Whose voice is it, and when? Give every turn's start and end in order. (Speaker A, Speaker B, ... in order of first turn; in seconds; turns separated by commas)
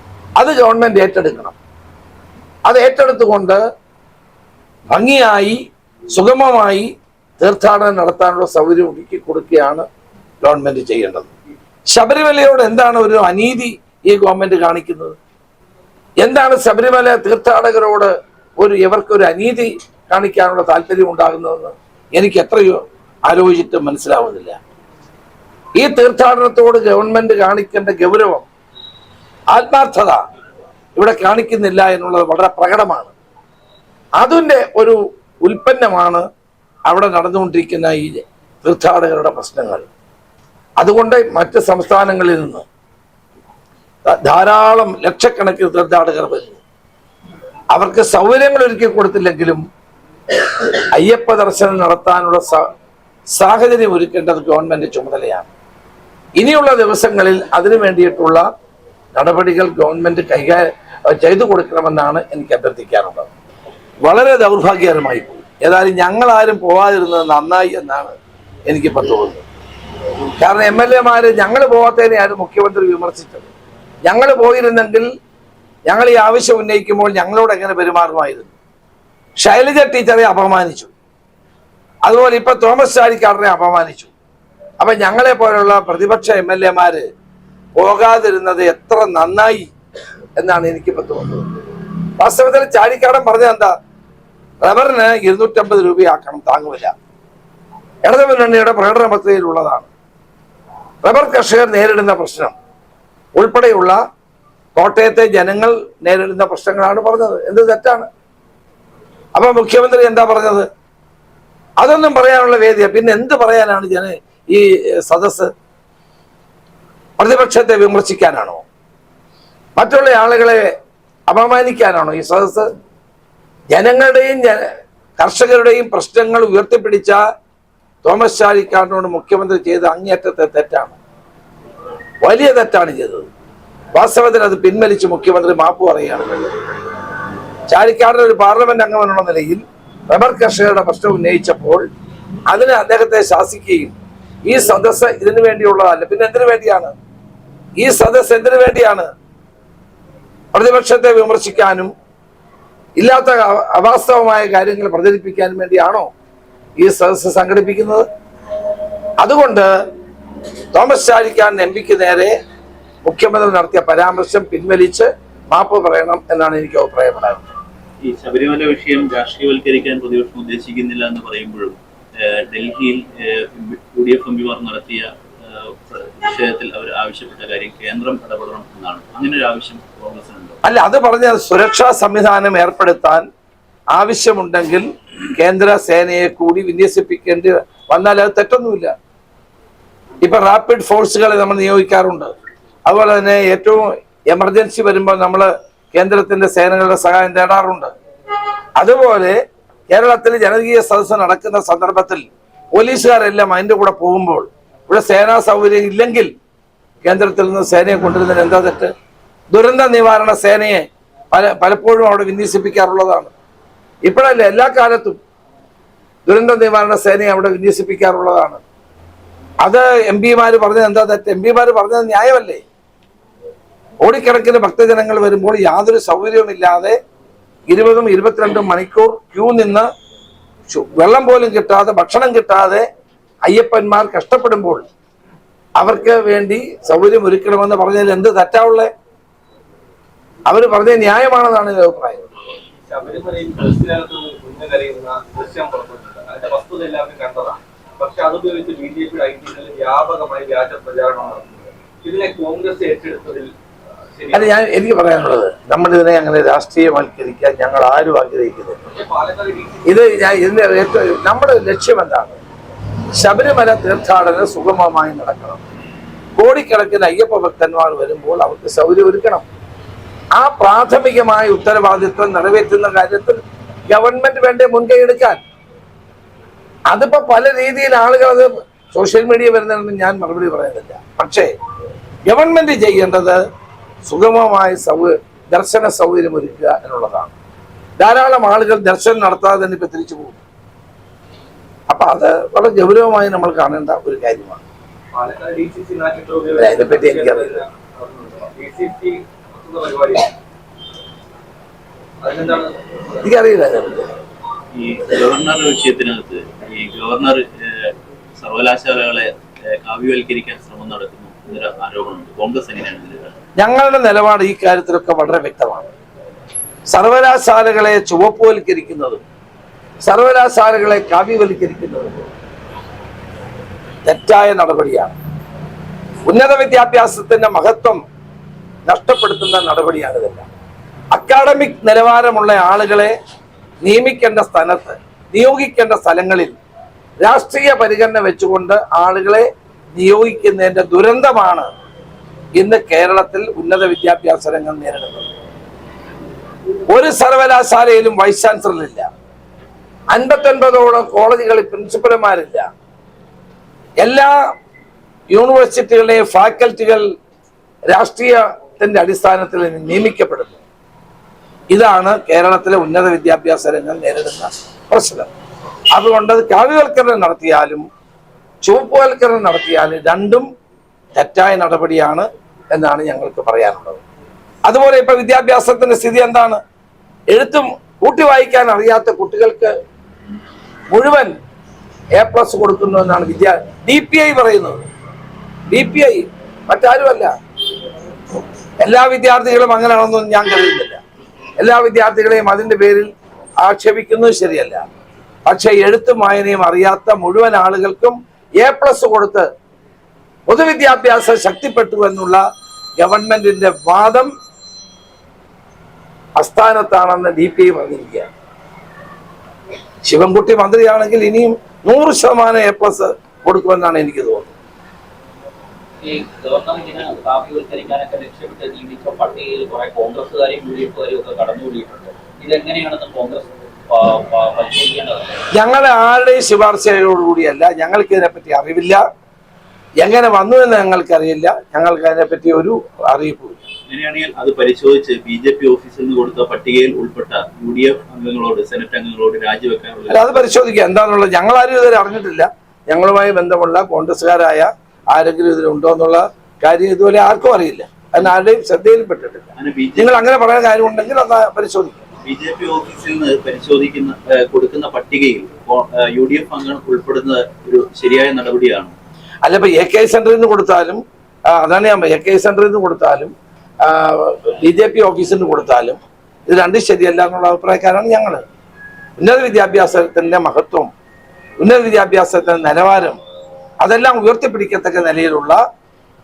Speaker A: 0.4-1.6, Speaker A: 2.6-3.6, Speaker A: 4.9-5.6, Speaker A: 6.1-9.8, Speaker A: 10.4-11.3, Speaker A: 11.9-15.2, Speaker A: 16.2-24.6, Speaker A: 25.8-28.4, Speaker A: 29.5-30.2, Speaker A: 30.9-33.1, Speaker A: 34.2-36.2, Speaker A: 36.9-39.9, Speaker A: 40.8-42.6, Speaker A: 44.0-46.6, Speaker A: 47.7-49.6, Speaker A: 50.5-52.6, Speaker A: 53.4-55.5, Speaker A: 56.4-58.5, Speaker A: 59.1-63.3, Speaker A: 64.0-68.1, Speaker A: 68.7-69.4, Speaker A: 70.4-73.5, Speaker A: 74.0-75.1, Speaker A: 75.9-78.5, Speaker A: 79.4-80.9, Speaker A: 82.0-84.1, Speaker A: 84.8-87.0, Speaker A: 87.8-89.7, Speaker A: 90.4-91.5, Speaker A: 92.2-93.7, Speaker A: 94.6-96.9, Speaker A: 98.0-99.9, Speaker A: 101.0-102.5, Speaker A: 103.3-104.0, Speaker A: 104.7-108.1, Speaker A: 109.3-110.7, Speaker A: 111.8-115.5, Speaker A: 117.2-118.6, Speaker A: 119.8-120.6, Speaker A: 121.3-122.7, Speaker A: 123.7-124.7, Speaker A: 125.2-127.2, Speaker A: 128.0-130.9, Speaker A: 132.2-133.2, Speaker A: 133.9-136.6, Speaker A: 137.7-141.8, Speaker A: 142.5-143.9, Speaker A: 144.4-146.9, Speaker A: 147.8-149.1, Speaker A: 150.5-151.9, Speaker A: 153.0-156.1, Speaker A: 156.8-158.1, Speaker A: 159.2-159.7, Speaker A: 160.7-162.3, Speaker A: 163.0-167.5, Speaker B: 168.0-180.6, Speaker A: 180.6-183.2, Speaker A: 183.9-188.9, Speaker A: 190.2-192.3, Speaker A: 192.8-197.9, Speaker A: 198.8-199.3, Speaker A: 199.9-206.3, Speaker A: 207.0-208.9, Speaker A: 209.5-213.3, Speaker A: 214.0-215.2, Speaker A: 216.3-218.6, Speaker A: 219.6-222.6, Speaker A: 224.0-226.9, Speaker A: 227.7-229.9, Speaker A: 230.7-232.8, Speaker A: 233.4-234.8, Speaker A: 235.8-238.9, Speaker A: 240.4-242.3, Speaker C: 242.8-253.5, Speaker C: 254.2-254.5, Speaker A: 254.3-258.8, Speaker C: 258.9-260.0, Speaker A: 259.8-262.4, Speaker A: 263.1-265.6, Speaker A: 266.4-269.4, Speaker A: 270.4-275.4, Speaker A: 276.9-281.5, Speaker A: 282.3-283.4, Speaker A: 284.1-287.3, Speaker A: 288.0-290.4, Speaker A: 291.9-294.6, Speaker C: 295.1-300.3, Speaker A: 296.6-297.6, Speaker C: 302.2-303.1, Speaker A: 303.2-304.1, Speaker B: 304.7-313.4, Speaker A: 313.6-315.9, Speaker A: 316.9-319.2, Speaker A: 320.0-322.3, Speaker A: 324.0-325.1, Speaker A: 326.3-328.0, Speaker A: 328.9-330.5, Speaker A: 331.1-333.1, Speaker A: 333.8-336.5, Speaker A: 337.2-341.7, Speaker A: 342.6-345.3, Speaker A: 346.9-349.1, Speaker A: 350.1-352.6, Speaker A: 354.0-354.4, Speaker A: 355.3-357.0, Speaker A: 357.9-360.6, Speaker A: 361.7-365.3, Speaker A: 365.9-367.9, Speaker A: 368.6-370.5, Speaker A: 371.1-374.0, Speaker A: 374.6-376.6, Speaker A: 377.3-379.7, Speaker A: 380.9-381.3, Speaker A: 382.2-384.8, Speaker A: 385.7-387.3, Speaker A: 388.8-391.0, Speaker A: 391.6-393.1, Speaker A: 393.6-394.8, Speaker A: 395.4-399.5, Speaker A: 400.5-402.4, Speaker A: 403.0-404.3, Speaker A: 406.4-408.3, Speaker A: 410.1-414.5, Speaker D: 416.0-425.4, Speaker A: 425.6-429.0, Speaker A: 430.0-433.6, Speaker B: 433.9-440.4, Speaker A: 440.1-452.0, Speaker B: 449.6-450.2, Speaker B: 452.2-458.9, Speaker A: 459.4-461.0, Speaker A: 461.5-463.3, Speaker A: 463.8-468.4, Speaker A: 469.2-470.9, Speaker A: 471.6-473.2, Speaker A: 473.8-475.6